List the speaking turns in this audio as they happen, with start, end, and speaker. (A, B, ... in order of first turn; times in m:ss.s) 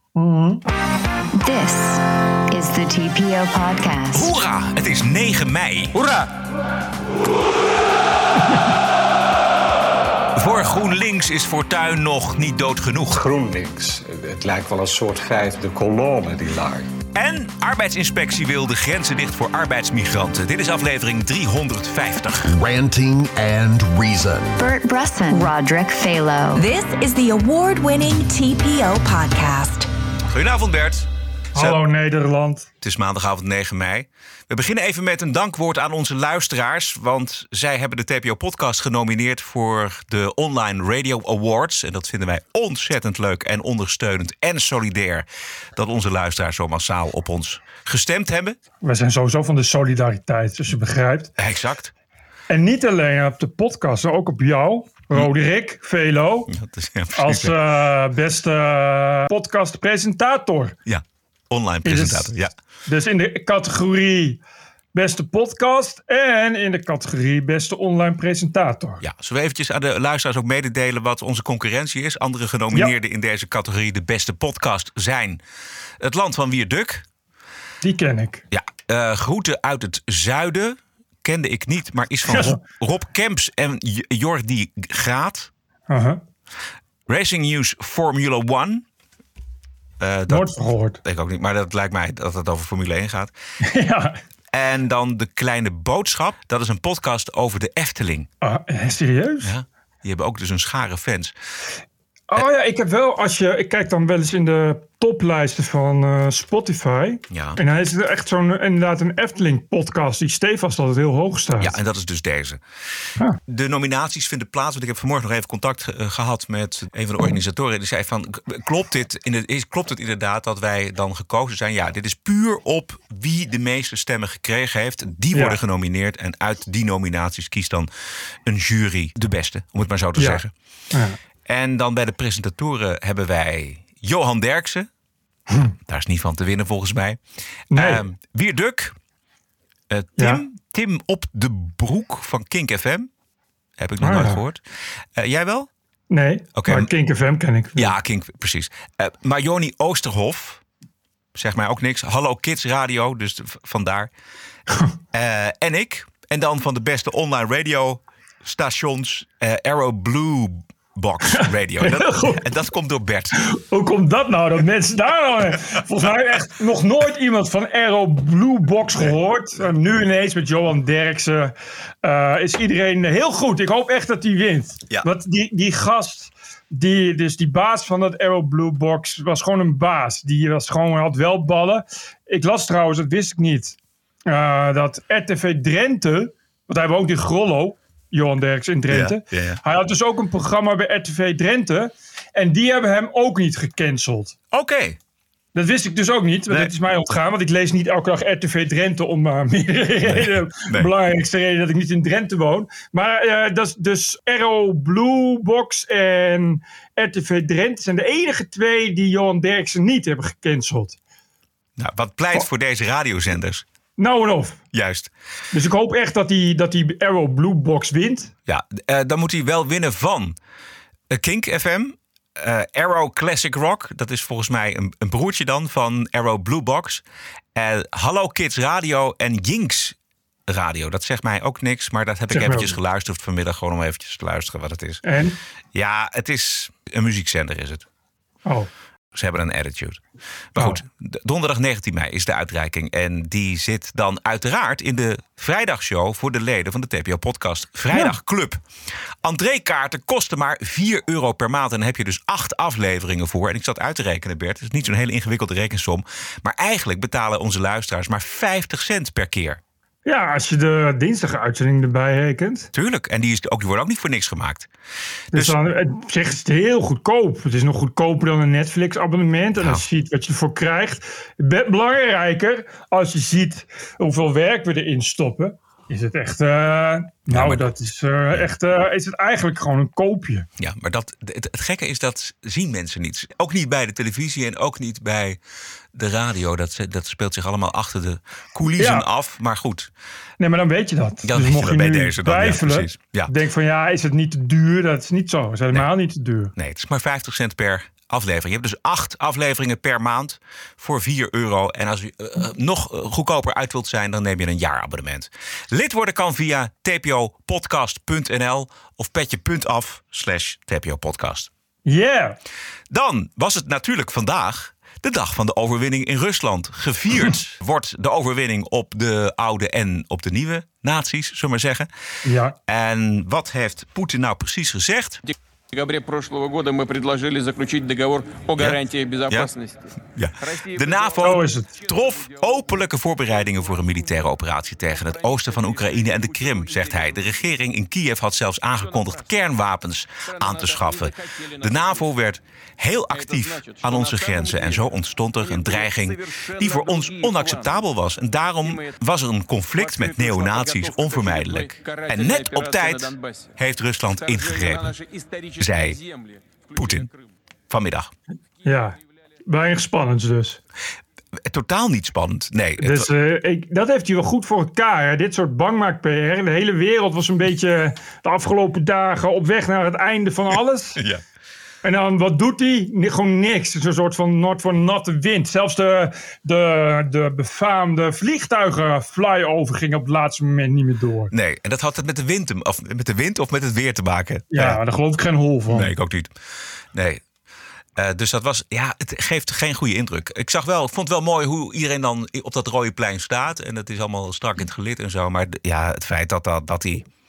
0:00.1-0:00.6 A
0:01.3-0:04.3 B
0:04.1-0:05.9 C
0:05.9-0:06.3 D
0:10.4-0:13.2 C
0:13.1-0:16.9 E
0:17.1-0:22.5 C
0:22.5-0:24.6 F
0:24.6-0:26.6 B
0:25.3-0:25.5 G
0:26.5-0:29.9 G
0:30.3-0:31.8 C
0:31.5-0:32.7 A
0:32.8-0:48.6 C
0:48.8-0:51.3 A
0:51.4-0:51.9 C
0:52.5-0:56.5 A
0:56.5-0:57.5 C
0:57.1-1:00.8 A
1:00.9-1:02.5 C
1:01.8-1:02.3 A
1:02.8-1:04.4 A
1:04.9-1:09.0 A
1:09.0-1:15.4 C
1:16.0-1:17.0 C
1:17.8-1:18.4 A
1:18.5-1:25.5 C
1:22.3-1:22.6 A
1:25.9-1:26.2 A
1:27.1-1:28.8 C
1:30.0-1:30.5 C
1:30.3-1:31.0 A
1:31.0-1:33.3 C
1:33.6-1:34.2 A
1:34.5-1:38.3 C
1:38.4-1:39.5 A
1:39.4-1:41.3 C
1:42.3-1:51.8 A
1:47.3-1:47.6 C
1:51.6-1:52.6 C
1:53.4-2:07.9 C
2:05.3-2:05.6 A
2:08.4-2:10.5 C
2:10.2-2:10.4 A
2:11.4-2:14.9 C
2:15.8-2:17.2 C
2:17.7-2:18.0 A
2:17.7-2:18.9 C
2:19.9-2:23.1 C
2:20.2-2:20.4 A
2:23.8-2:24.6 C
2:24.0-2:24.4 A
2:25.1-2:25.7 C
2:26.1-2:27.9 A
2:26.6-2:26.9 C
2:27.8-2:30.6 C
2:31.3-2:34.1 C
2:35.1-2:43.4 C
2:41.4-2:42.4 A
2:43.4-3:14.3 A
3:08.9-3:09.6 C
3:14.5-3:15.0 C
3:15.5-3:31.0 A
3:20.1-3:20.9 C
3:31.8-3:33.6 C
3:34.0-3:34.6 A
3:34.7-3:35.1 C
3:35.5-3:38.3 A
3:38.5-3:40.4 C
3:41.1-3:47.0 C
3:47.5-3:50.0 C
3:50.5-3:55.0 C
3:52.3-3:52.8 A
3:55.0-3:55.4 A
3:55.7-3:57.8 C
3:59.1-4:00.0 C
4:00.5-4:08.6 C
4:09.2-4:19.6 C
4:20.0-4:22.7 A
4:22.7-4:24.7 C
4:25.3-4:40.5 A
4:37.3-4:37.6 C
4:40.6-4:45.4 C
4:45.9-4:49.9 C
4:48.8-4:49.0 A
4:50.4-4:56.5 A
4:51.2-4:53.3 C
4:56.6-5:11.5 C
5:11.8-5:12.4 A
5:12.9-5:21.9 C
5:22.2-5:22.5 A
5:22.7-5:25.2 C
5:25.7-5:29.8 D
5:30.2-5:54.9 C
5:30.4-5:31.3 D
5:31.2-5:31.7 A
5:32.1-5:32.4 D
5:33.5-5:33.8 D
5:34.9-5:37.4 D
5:38.8-5:39.1 D
5:40.3-5:42.1 D
5:43.1-5:47.8 D
5:48.6-5:49.0 D
5:49.8-5:53.5 D
5:54.2-5:57.2 D
5:55.6-5:56.0 C
5:56.8-5:57.1 C
5:57.7-5:58.1 C
5:58.6-6:00.6 A
6:01.4-6:03.1 C
6:02.8-6:11.0 A
6:11.8-6:21.3 A
6:21.3-6:24.8 C
6:24.5-6:25.9 A
6:25.7-6:26.3 C
6:26.9-6:27.2 C
6:28.0-6:37.0 C